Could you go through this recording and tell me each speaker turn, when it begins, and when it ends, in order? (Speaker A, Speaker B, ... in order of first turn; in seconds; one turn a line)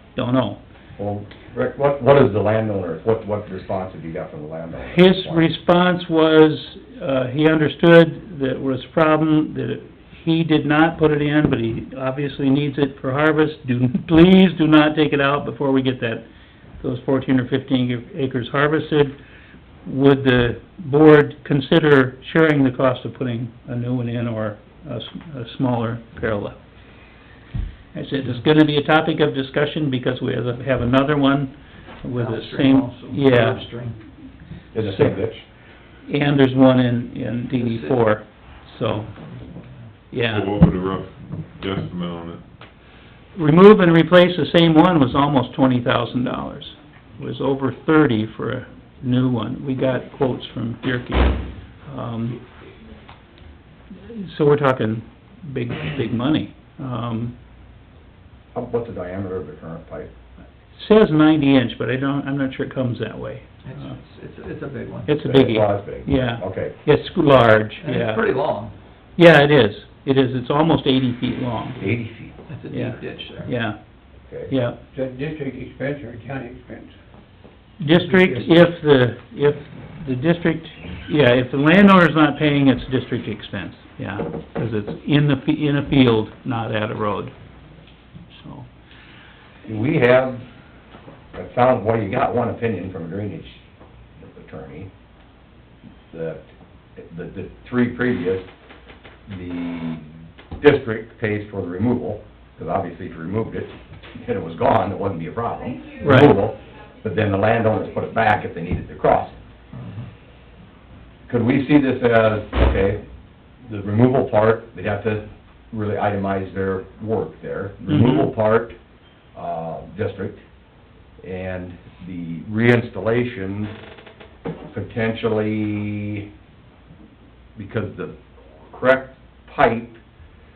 Speaker A: 0.1-0.6
Speaker B: 1.0-5.5
Speaker A: 4.8-16.2
Speaker A: 16.8-19.2
Speaker A: 19.8-26.6
Speaker A: 27.9-33.6
Speaker C: 32.1-34.0
Speaker B: 34.7-35.4
Speaker A: 34.8-35.2
Speaker A: 36.0-39.1
Speaker C: 37.5-38.0
Speaker C: 38.9-39.9
Speaker A: 40.1-40.5
Speaker D: 40.2-42.4
Speaker A: 43.3-52.4
Speaker A: 53.9-57.3
Speaker B: 58.5-60.1
Speaker A: 60.7-63.5
Speaker C: 63.6-65.1
Speaker A: 65.1-68.2
Speaker B: 65.2-66.8
Speaker C: 67.8-68.7
Speaker A: 69.2-71.9
Speaker B: 71.8-72.3
Speaker C: 72.5-73.5
Speaker A: 72.7-73.8
Speaker A: 74.5-74.8
Speaker E: 74.9-76.9
Speaker A: 77.8-87.3
Speaker E: 78.1-78.5
Speaker A: 88.3-88.7
Speaker B: 89.6-90.4
Speaker B: 91.3-93.6
Speaker B: 94.2-94.9
Speaker B: 96.1-96.4
Speaker B: 97.0-98.5
Speaker B: 99.3-100.0
Speaker B: 100.6-109.3
Speaker A: 106.0-106.3
Speaker C: 109.7-110.1
Speaker B: 111.3-113.0
Speaker B: 113.6-118.7
Speaker A: 117.9-118.3
Speaker B: 119.3-120.4
Speaker B: 121.2-123.7
Speaker B: 124.7-126.3
Speaker B: 127.5-128.1
Speaker B: 128.7-130.0